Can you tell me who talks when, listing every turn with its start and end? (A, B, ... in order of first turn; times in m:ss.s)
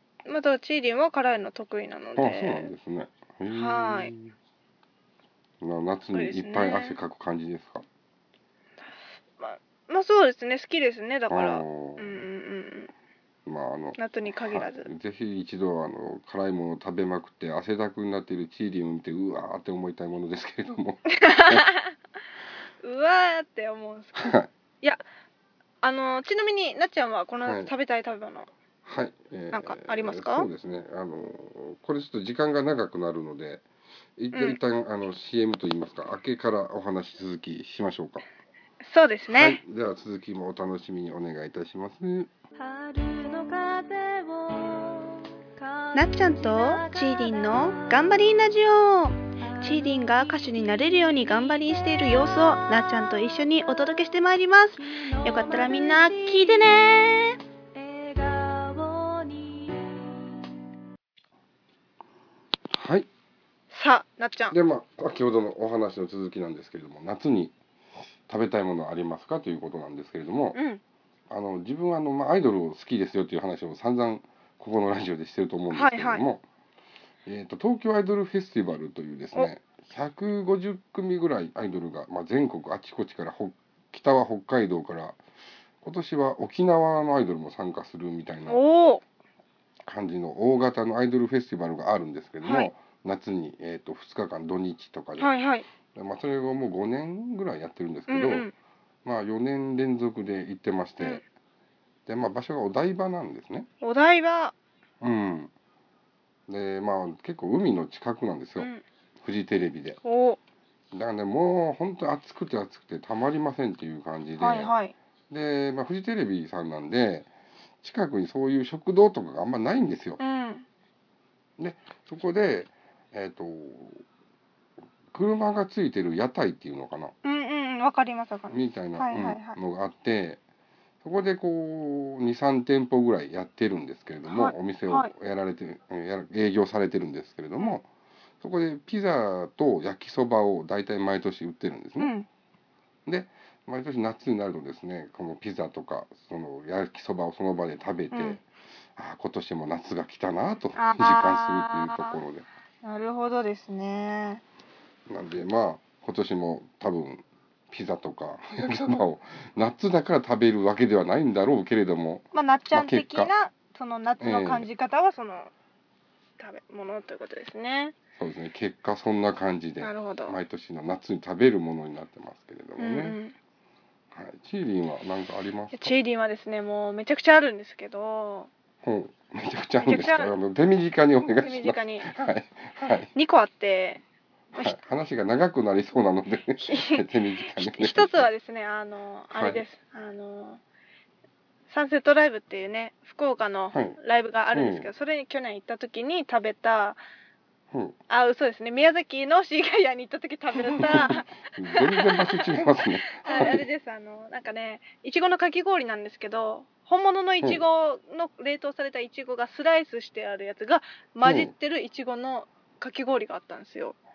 0:00.2-0:02.7 A
0:02.2-0:04.4 B
0:03.5-0:04.1 A
0:05.6-0:07.8 B
0:06.1-0:07.0 A
0:08.9-0:12.9 A
0:11.3-0:12.2 B
0:13.5-0:21.7 B
0:14.0-0:14.9 A
0:21.2-0:22.0 A
0:22.8-0:25.0 A
0:24.2-0:24.5 B
0:25.8-0:28.5 A
0:27.4-0:27.7 B
0:28.8-0:33.6 B
0:29.5-0:30.5 A
0:34.2-0:38.2 B
0:34.3-0:34.6 A
0:38.8-0:39.6 A
0:39.3-0:42.3 B
0:42.6-0:48.4 C
0:45.9-0:57.4 A
0:49.4-0:54.1 C
0:54.8-0:56.9 C
0:57.7-1:00.5 C
1:02.7-1:03.1 B
1:03.7-1:04.6 A
1:04.5-1:07.6 B
1:08.3-1:10.6 B
1:10.6-1:10.8 A
1:11.3-1:16.4 B
1:15.7-1:16.2 A
1:17.3-1:25.2 B
1:25.8-1:28.6 B
1:28.5-1:29.0 A
1:29.8-1:35.3 B
1:32.4-1:32.7 A
1:35.2-1:35.7 A
1:35.9-1:38.5 B
1:38.1-1:38.5 A
1:39.0-1:41.2 B
1:42.1-1:43.7 B
1:43.8-1:44.6 A
1:45.0-1:45.5 B
1:46.5-1:48.7 B
1:49.2-1:50.0 B
1:50.0-1:50.4 A
1:50.9-1:54.7 B
1:54.4-1:55.0 A
1:55.3-1:57.3 B
1:57.8-2:00.2 B
2:00.2-2:00.7 A
2:01.6-2:04.0 B
2:05.1-2:07.1 B
2:07.2-2:09.6 A
2:08.5-2:10.4 B
2:11.0-2:17.9 B
2:14.3-2:15.1 A
2:18.4-2:22.1 B
2:22.0-2:22.3 A
2:23.1-2:28.4 B
2:28.1-2:28.4 A
2:29.0-2:32.5 B
2:30.8-2:32.2 A
2:32.8-2:34.4 A
2:35.1-2:43.3 B
2:42.3-2:45.5 A
2:44.2-2:44.7 B
2:46.4-2:48.0 A
2:48.2-2:53.2 B
2:49.8-2:50.4 A
2:52.8-2:53.4 A
2:54.1-2:55.9 B
2:55.7-2:58.5 A
2:58.8-3:03.1 B
2:59.8-3:00.4 A
3:01.4-3:02.1 A
3:03.1-3:04.0 A
3:04.6-3:08.3 B
3:06.6-3:10.6 A
3:09.3-3:09.6 B
3:11.7-3:17.0 A
3:14.5-3:14.9 B
3:17.7-3:18.0 B
3:18.1-3:22.5 A
3:20.7-3:23.6 B
3:23.1-3:34.0 A
3:31.2-3:31.5 B